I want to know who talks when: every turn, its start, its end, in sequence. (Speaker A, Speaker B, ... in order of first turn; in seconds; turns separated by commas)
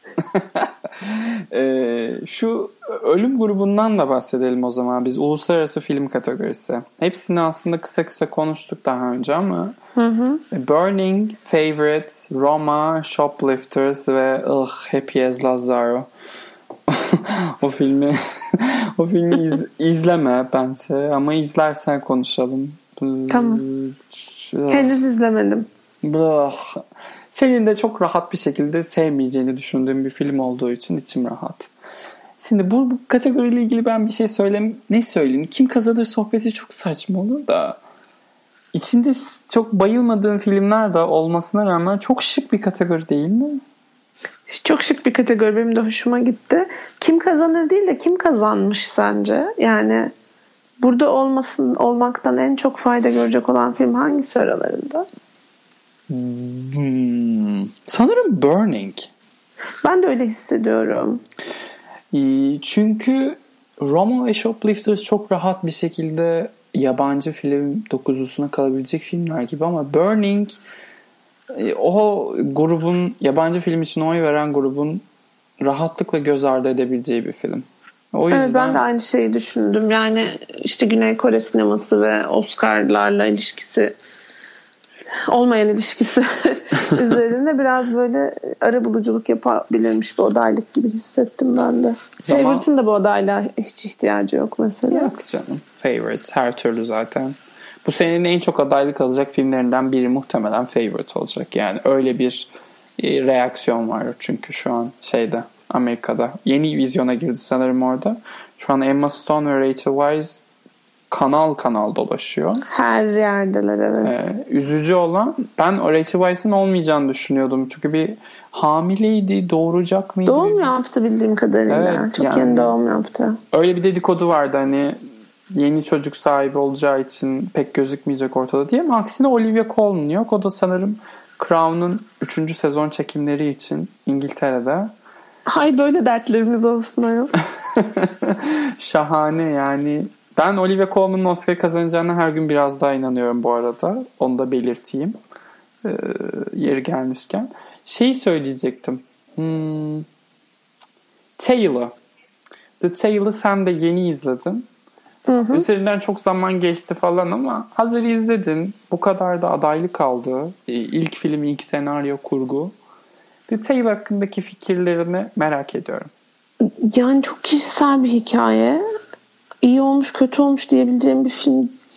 Speaker A: 0.2-9.8, Speaker B: 9.9-10.4, Speaker A: 10.5-16.1, Speaker A: 16.9-24.9, Speaker B: 23.3-23.6, Speaker B: 24.7-25.7, Speaker A: 26.0-31.7, Speaker A: 32.4-37.8, Speaker A: 38.7-43.6, Speaker B: 44.5-50.1, Speaker B: 50.8-55.1, Speaker A: 56.1-59.1, Speaker B: 59.8-61.2, Speaker A: 62.1-70.6, Speaker A: 71.5-75.0, Speaker A: 75.6-78.8, Speaker B: 78.3-84.0, Speaker B: 85.1-95.1, Speaker A: 92.2-92.7, Speaker A: 94.9-110.4, Speaker A: 111.1-112.6, Speaker B: 112.7-114.3, Speaker A: 114.0-120.7, Speaker B: 120.2-123.4, Speaker A: 121.7-122.8, Speaker A: 123.5-125.0, Speaker A: 125.5-134.9, Speaker B: 135.5-137.3, Speaker A: 137.6-145.2, Speaker A: 145.8-150.1, Speaker A: 151.4-151.9, Speaker A: 152.8-154.7, Speaker B: 155.3-155.6, Speaker A: 155.5-162.8, Speaker A: 163.5-166.1, Speaker B: 166.6-168.8, Speaker B: 169.6-171.8